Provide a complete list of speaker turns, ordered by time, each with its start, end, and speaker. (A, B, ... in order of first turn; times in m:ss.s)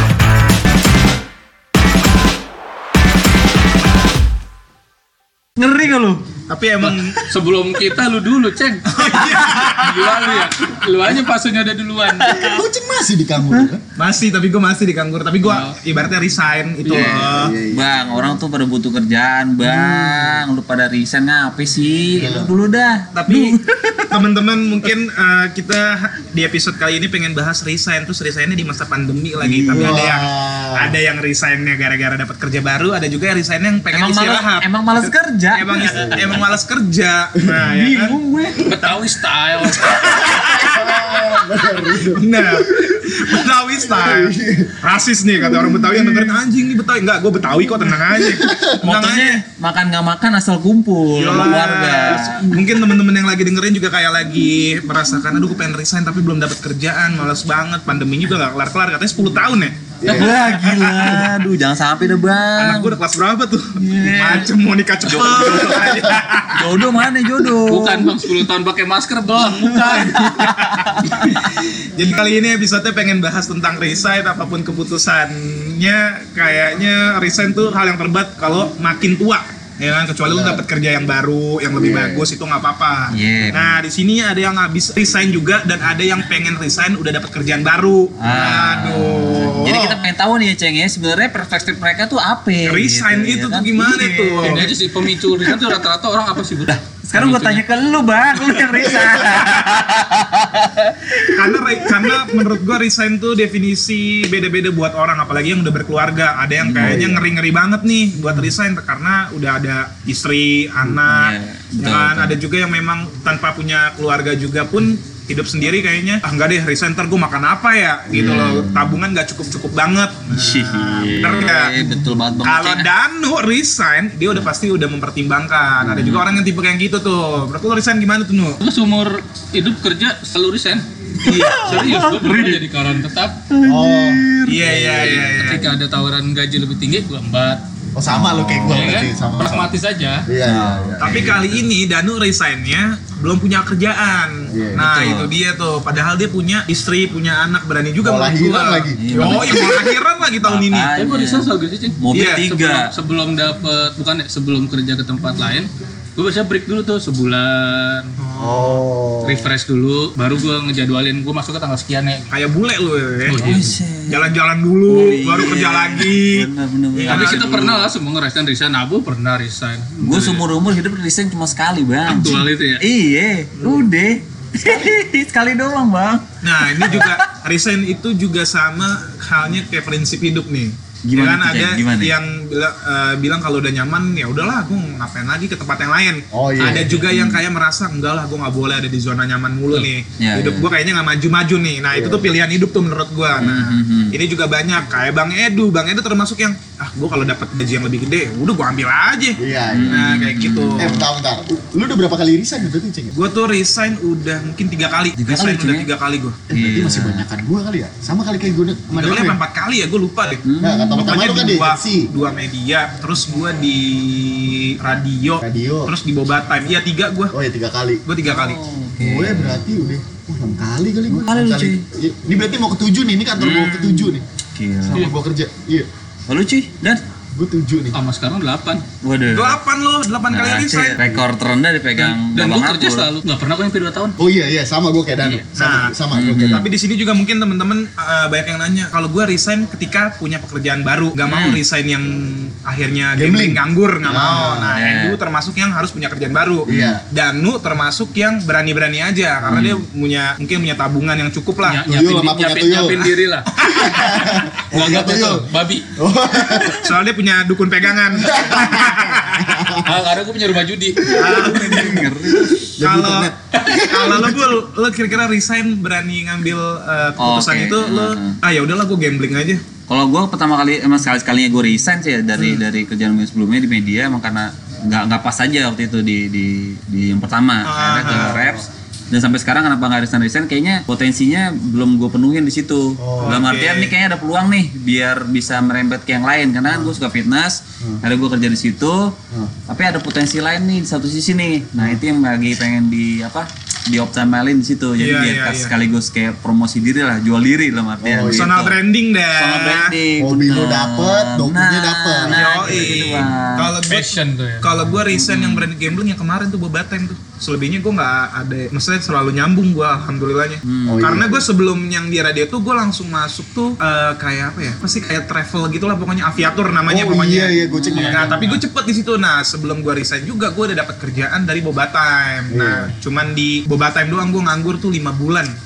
0:05.6-0:06.3 A
0:06.5-0:07.3 B
0:06.8-0:12.3 C
0:08.9-0:10.2 B
0:09.0-0:10.5 A
0:12.1-0:12.6 A
0:12.3-0:13.8 D
0:14.0-0:17.5 B
0:15.4-0:15.7 C
0:16.9-0:24.2 A
0:16.9-0:18.4 D
0:19.6-0:20.4 D
0:22.1-0:22.5 D
0:23.1-0:38.2 B
0:29.4-0:30.0 A
0:29.8-0:31.0 D
0:33.9-0:36.4 A
0:36.0-0:36.3 D
0:37.6-0:38.7 A
0:38.6-0:40.2 C
0:39.7-0:41.4 B
0:40.2-0:44.8 D
0:42.0-0:49.4 B
0:45.5-0:46.4 D
0:48.0-0:48.8 D
0:48.8-0:52.5 A
0:51.1-1:01.3 B
1:00.0-1:01.0 D
1:00.0-1:03.0 A
1:02.6-1:07.0 B
1:03.8-1:04.5 A
1:05.0-1:08.2 A
1:05.6-1:06.0 D
1:07.6-1:10.5 C
1:09.4-1:11.6 A
1:10.4-1:30.0 B
1:21.8-1:22.2 A
1:23.1-1:23.7 A
1:28.2-1:34.7 A
1:32.6-1:34.7 B
1:34.4-1:37.6 C
1:35.3-1:35.8 A
1:36.6-1:42.6 A
1:39.0-1:39.5 B
1:41.2-2:08.6 B
1:46.6-1:47.1 A
1:46.8-1:47.2 D
1:50.9-1:52.4 A
1:58.1-1:58.7 D
1:58.1-1:58.8 A
2:00.3-2:02.9 A
2:05.8-2:06.2 A
2:08.6-2:13.4 C
2:11.2-2:12.6 A
2:13.5-2:15.4 A
2:13.6-2:15.2 D
2:14.4-2:15.7 B
2:15.3-2:17.6 C
2:17.9-2:19.7 D
2:18.1-2:19.6 A
2:18.6-2:20.3 C
2:20.2-2:21.4 D
2:20.4-2:21.6 A
2:21.0-2:30.9 B
2:24.5-2:24.9 D
2:24.8-2:25.3 A
2:28.0-2:29.6 D
2:29.0-2:32.9 A
2:31.0-2:38.1 C
2:32.1-2:32.5 B
2:38.2-2:38.8 B
2:38.4-2:39.5 D
2:39.2-2:42.3 C
2:42.3-2:47.6 B
2:43.2-2:43.7 C
2:43.4-2:44.3 A
2:44.9-2:47.9 A
2:47.0-2:50.4 C
2:50.0-2:57.2 A
2:52.1-2:52.8 C
2:56.4-3:21.0 B
3:01.0-3:02.1 A
3:06.3-3:07.0 D
3:06.6-3:07.4 A
3:09.7-3:10.7 A
3:11.9-3:12.3 D
3:13.4-3:14.1 A
3:19.4-3:20.2 D
3:19.7-3:21.0 A
3:20.8-3:23.2 D
3:23.1-3:26.4 B
3:25.2-3:25.9 A
3:26.5-3:29.4 D
3:26.5-3:27.2 A
3:28.9-3:37.3 B
3:30.4-3:31.1 A
3:30.6-3:32.1 D
3:35.4-3:35.9 D
3:37.3-3:38.0 D
3:38.0-3:38.6 B
3:38.2-3:39.6 A
3:39.0-3:44.2 D
3:41.1-3:41.8 A
3:43.4-3:45.1 A
3:44.8-3:45.9 D
3:46.3-3:47.0 A
3:47.3-3:48.0 D
3:47.9-3:48.8 C
3:49.0-3:49.6 A
3:49.3-3:51.0 B
3:50.3-3:53.1 A
3:52.0-3:54.2 C
3:54.2-3:56.7 D
3:55.5-4:11.8 B
3:56.1-3:56.7 A
4:01.2-4:01.6 A
4:03.2-4:04.7 D
4:04.6-4:05.2 A
4:06.7-4:07.0 D
4:06.7-4:07.0 A
4:09.4-4:09.7 D
4:09.4-4:09.8 A
4:11.6-4:13.5 C
4:11.9-4:16.8 D
4:13.6-4:14.4 B
4:14.1-4:15.9 C
4:16.6-4:19.7 B
4:18.2-4:19.9 D
4:19.8-4:21.2 C
4:21.1-4:22.1 B
4:21.1-4:24.6 D
4:21.3-4:22.5 A
4:22.8-4:29.6 B
4:27.2-4:28.4 A
4:29.9-4:49.2 A
4:32.4-4:32.6 B
4:37.6-4:38.5 B
4:38.0-4:38.6 D
4:43.0-4:43.5 D
4:43.2-4:43.9 B
4:46.7-4:47.0 D
4:49.7-4:58.8 A
4:55.0-4:55.7 B
4:58.0-4:58.5 D
4:58.2-4:59.9 B
4:59.3-5:03.7 A
5:00.2-5:03.3 D
5:02.3-5:25.5 B
5:03.8-5:04.7 C
5:05.1-5:05.7 A
5:10.6-5:11.2 A
5:10.9-5:11.4 D
5:16.9-5:18.4 D
5:17.7-5:18.5 A
5:18.0-5:18.6 C
5:22.5-5:22.9 D